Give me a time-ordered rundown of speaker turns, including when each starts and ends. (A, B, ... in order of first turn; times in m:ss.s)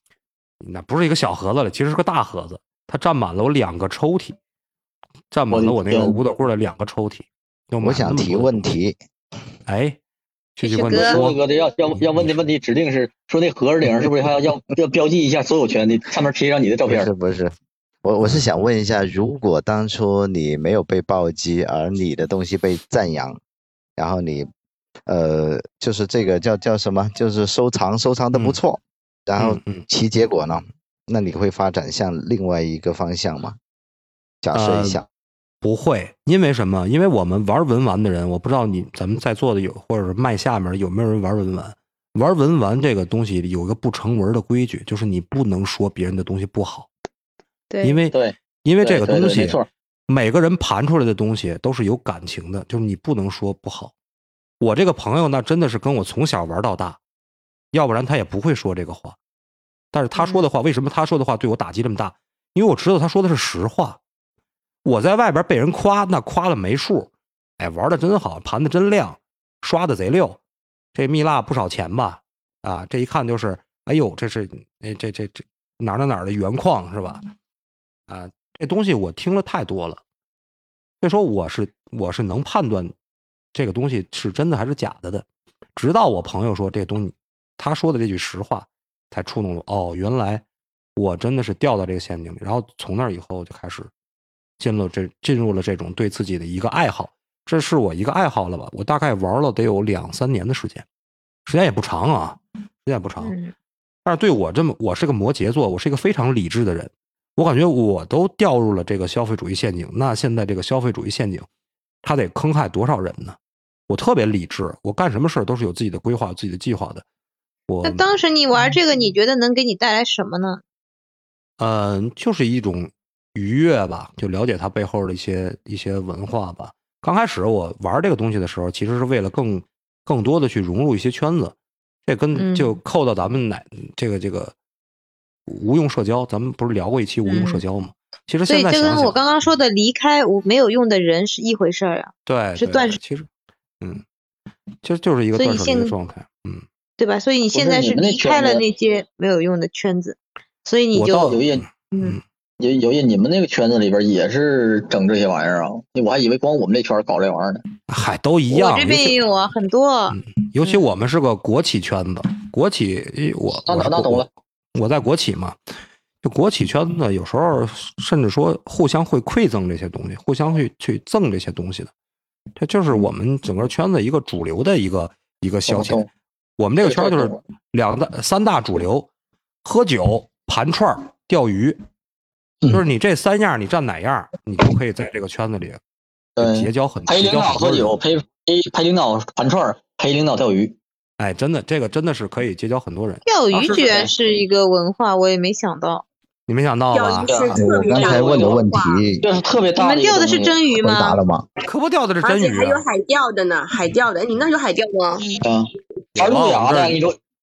0:00.6-0:04.4 A
0:05.3-0:08.8 A
0:05.5-0:06.1 B
0:07.8-0:09.0 C
0:09.6-0:10.0 A
0:10.6-0:11.4 A
0:10.6-0:11.2 D
0:10.9-0:17.1 B
0:16.9-0:23.4 C
0:24.0-0:24.5 C
0:25.0-0:33.6 C
0:29.4-0:29.8 A
0:34.4-0:35.0 C
0:34.5-0:35.0 A
0:35.6-0:46.9 A
0:47.7-0:48.0 D
0:47.8-0:53.9 A
0:48.1-0:49.6 B
0:54.6-0:57.0 A
0:57.7-0:59.2 A
0:59.9-1:04.0 A
1:00.1-1:00.5 D
1:04.8-1:10.4 A
1:10.9-1:17.2 A
1:18.1-1:20.0 A
1:21.0-1:22.9 A
1:23.5-1:25.2 A
1:25.8-1:30.4 A
1:31.0-1:33.9 A
1:34.6-1:40.8 A
1:41.4-1:43.3 A
1:43.2-1:43.5 D
1:44.0-1:51.5 A
1:52.0-1:53.4 A
1:53.9-1:57.0 A
1:57.7-1:58.2 A
1:57.8-2:00.6 D
2:01.6-2:14.5 A
2:12.3-2:12.8 D
2:15.5-2:19.2 A
2:17.2-2:17.6 D
2:18.5-2:23.0 D
2:22.2-2:23.3 A
2:24.8-2:26.6 A
2:25.3-2:25.9 D
2:27.0-2:32.2 D
2:27.5-2:28.6 B
2:30.9-2:32.2 A
2:31.1-2:31.6 B
2:32.6-2:37.6 B
2:37.9-2:39.2 A
2:38.5-2:40.9 D
2:40.1-2:45.6 A
2:43.7-2:44.3 B
2:46.2-2:51.9 A
2:52.6-2:56.0 A
2:55.7-2:56.1 B
2:56.6-2:59.1 A
2:56.8-2:57.4 B
2:59.6-3:01.8 A
3:02.7-3:05.8 A
3:06.4-3:10.8 B
3:06.4-3:08.0 A
3:11.2-3:13.2 A
3:13.2-3:16.0 D
3:13.5-3:14.1 B
3:16.5-3:17.4 A
3:16.9-3:19.0 E
3:17.3-3:18.6 B
3:17.5-3:19.2 C
3:19.2-3:20.6 B
3:19.8-3:21.2 D
3:20.8-3:21.5 C
3:21.6-3:22.8 A
3:22.2-3:25.3 E
3:25.4-3:27.2 B
3:26.2-3:27.0 A